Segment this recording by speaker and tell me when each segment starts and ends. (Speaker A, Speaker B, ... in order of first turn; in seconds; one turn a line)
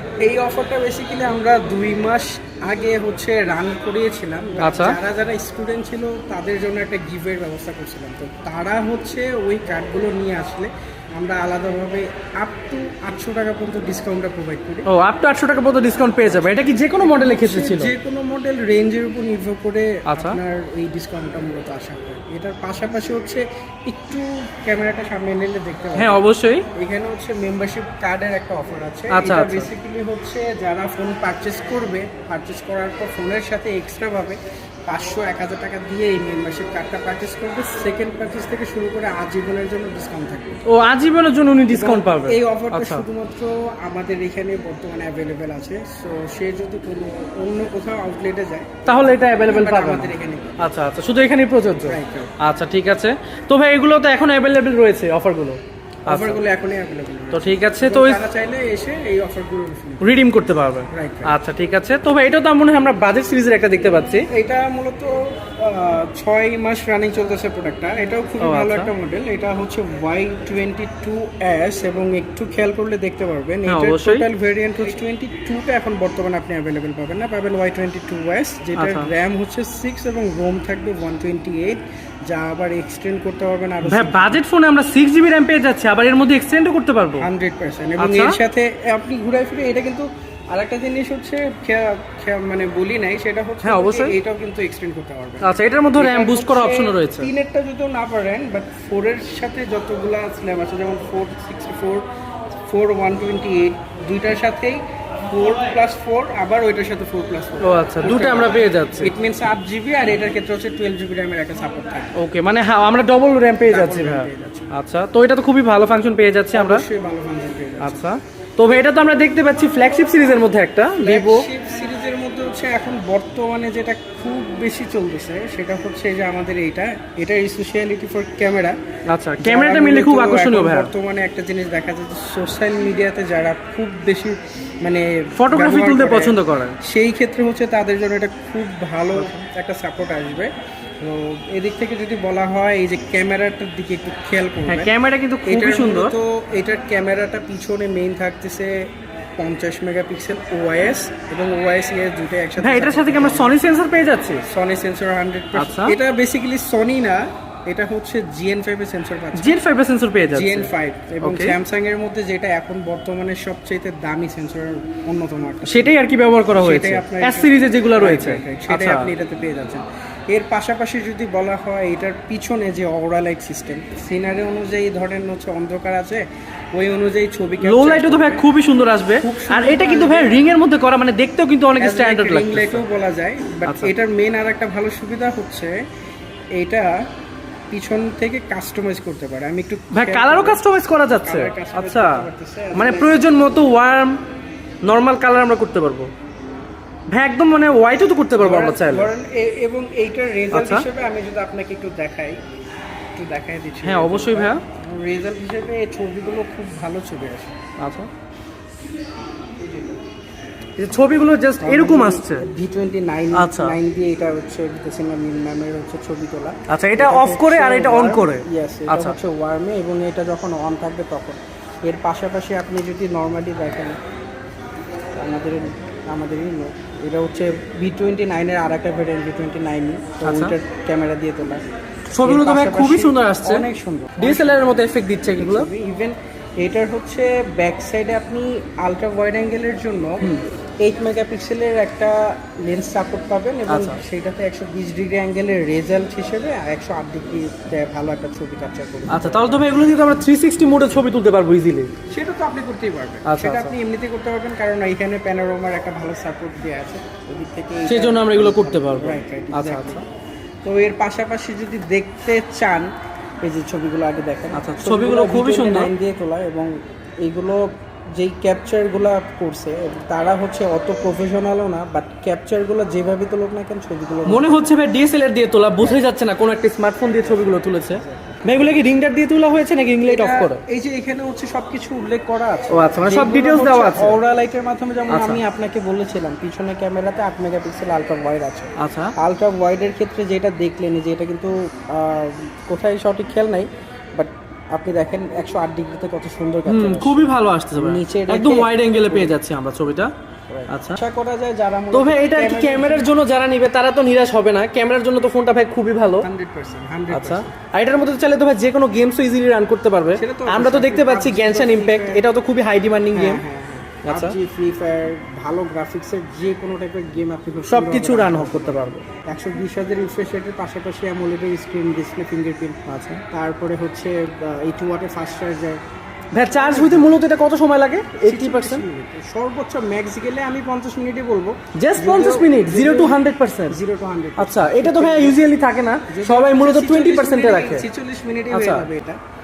Speaker A: 0.2-14.9
Speaker B: 4.6-5.0
Speaker B: 14.9-17.9
Speaker A: 16.0-26.2
Speaker B: 20.1-20.4
Speaker B: 25.9-26.7
Speaker A: 26.7-40.6
Speaker B: 29.1-29.7
Speaker B: 40.6-43.0
Speaker A: 41.7-50.6
Speaker B: 48.9-56.4
Speaker A: 51.8-52.3
Speaker A: 56.1-60.2
Speaker B: 57.3-58.2
Speaker B: 60.0-64.3
Speaker A: 60.9-61.3
Speaker A: 64.3-84.4
Speaker B: 68.4-68.9
Speaker B: 73.7-74.2
Speaker B: 78.8-79.1
Speaker B: 83.8-87.3
Speaker A: 87.2-102.0
Speaker B: 88.0-88.4
Speaker B: 93.6-94.1
Speaker B: 95.4-97.3
Speaker A: 102.7-112.1
Speaker B: 107.6-109.1
Speaker B: 112.2-116.8
Speaker A: 113.6-114.7
Speaker A: 116.5-118.1
Speaker B: 117.8-121.5
Speaker A: 121.0-128.8
Speaker B: 129.1-130.9
Speaker A: 129.4-140.5
Speaker B: 135.4-136.8
Speaker B: 139.1-139.4
Speaker A: 141.0-144.9
Speaker B: 144.7-146.1
Speaker A: 145.4-148.7
Speaker A: 149.4-153.5
Speaker B: 152.6-154.4
Speaker A: 154.5-159.6
Speaker B: 155.6-156.0
Speaker B: 159.3-160.7
Speaker A: 160.3-165.9
Speaker B: 161.2-161.6
Speaker B: 165.6-169.1
Speaker A: 166.5-178.4
Speaker B: 177.6-182.8
Speaker A: 179.1-180.4
Speaker A: 181.8-185.8
Speaker B: 183.7-183.9
Speaker A: 186.6-187.1
Speaker A: 187.7-190.6
Speaker B: 189.9-192.2
Speaker A: 191.2-193.3
Speaker B: 192.7-194.2
Speaker B: 194.8-196.1
Speaker B: 197.1-199.1
Speaker A: 198.4-202.4
Speaker B: 200.5-200.8
Speaker A: 203.1-207.6
Speaker B: 203.8-204.6
Speaker B: 207.8-208.1
Speaker A: 209.6-209.9
Speaker B: 210.8-212.4
Speaker A: 211.6-224.0
Speaker B: 213.3-213.7
Speaker B: 216.7-219.2
Speaker A: 225.2-231.6
Speaker B: 230.2-230.5
Speaker B: 232.1-233.7
Speaker A: 232.2-234.8
Speaker B: 234.2-235.7
Speaker A: 235.3-240.2
Speaker A: 240.8-249.8
Speaker B: 243.7-244.0
Speaker B: 249.1-251.9
Speaker A: 252.1-260.0
Speaker B: 253.2-253.7
Speaker B: 257.9-260.0
Speaker A: 260.6-262.9
Speaker A: 263.4-266.7
Speaker B: 264.5-265.9
Speaker A: 267.2-274.5
Speaker B: 274.2-280.6
Speaker A: 277.9-278.7
Speaker A: 280.0-299.3
Speaker B: 282.7-284.2
Speaker B: 285.1-285.4
Speaker B: 288.8-289.1
Speaker B: 296.6-300.1
Speaker A: 300.5-303.1
Speaker B: 300.7-301.0
Speaker B: 301.9-306.2
Speaker A: 306.2-307.5
Speaker B: 307.1-313.4
Speaker A: 310.1-312.2
Speaker A: 313.1-322.8
Speaker B: 314.0-314.4
Speaker B: 317.7-319.0
Speaker B: 322.9-323.2
Speaker A: 323.3-325.8
Speaker B: 326.3-328.9
Speaker A: 326.4-327.1
Speaker A: 328.2-335.4
Speaker B: 331.8-333.8
Speaker B: 334.4-337.9
Speaker A: 336.1-339.2
Speaker B: 338.5-338.9